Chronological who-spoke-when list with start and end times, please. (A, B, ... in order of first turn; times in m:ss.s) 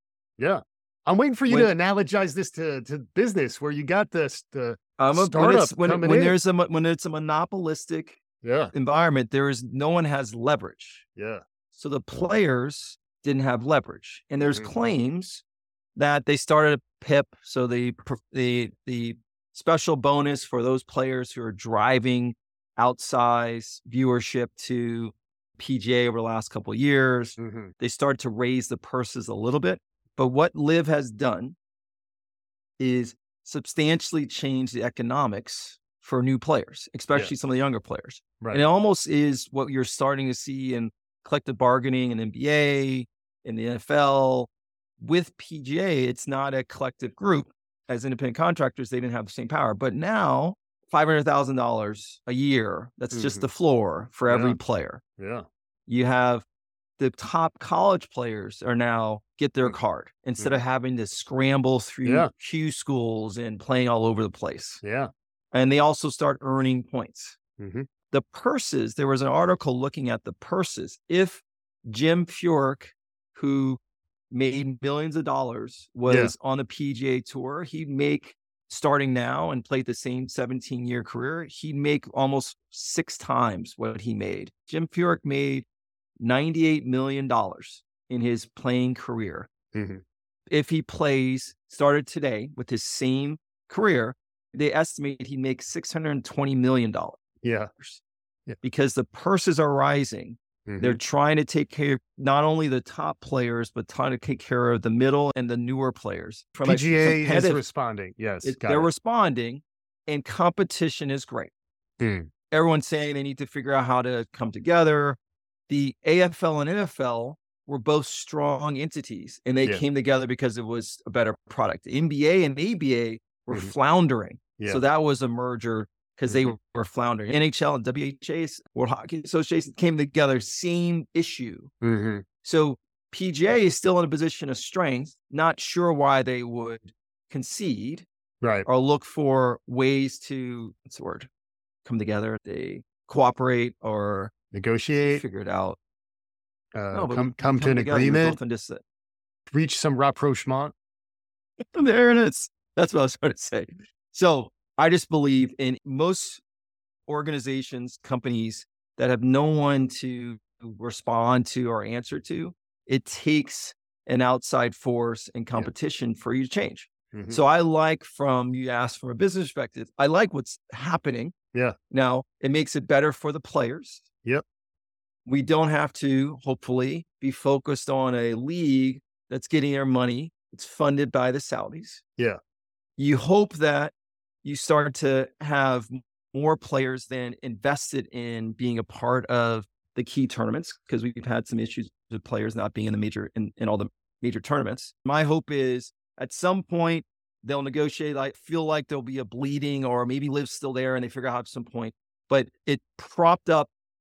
0:00.4-0:06.3 A
0:05.0-0:08.2 B
0:08.4-0:08.7 A
0:08.7-0:11.0 B
0:11.2-0:11.4 A
0:11.7-0:15.4 B
0:14.4-0:14.7 A
0:16.0-0:31.6 B
0:27.4-0:27.7 A
0:32.8-0:55.0 B
0:53.1-0:53.5 A
0:54.3-0:54.6 A
0:55.2-0:55.4 A
0:55.9-0:56.4 B
0:57.0-1:04.8 B
1:02.0-1:02.3 A
1:04.8-1:05.1 A
1:05.5-1:07.4 B
1:07.6-1:07.9 A
1:08.1-1:13.8 B
1:14.3-1:25.6 B
1:16.1-1:16.3 A
1:26.2-1:29.5 B
1:29.7-1:30.0 A
1:30.5-1:37.2 B
1:37.4-1:37.7 A
1:38.6-1:47.6 B
1:40.7-1:41.0 A
1:46.6-1:48.9 A
1:48.4-1:51.5 B
1:52.0-1:52.3 A
1:52.5-2:11.7 B
2:06.3-2:06.6 A
2:11.8-2:12.2 A
2:12.4-2:18.0 B
2:18.4-2:18.7 A
2:18.6-2:21.3 B
2:21.8-2:24.3 B
2:24.5-2:25.2 A
2:25.1-2:25.8 B
2:26.8-2:28.4 A
2:26.9-2:28.8 B
2:29.5-2:30.7 A
2:31.6-2:36.4 B
2:37.1-2:51.3 B
2:47.1-2:47.4 A
2:51.9-2:54.0 B
2:55.2-3:02.0 B
3:03.0-3:03.9 B
3:04.4-3:23.7 B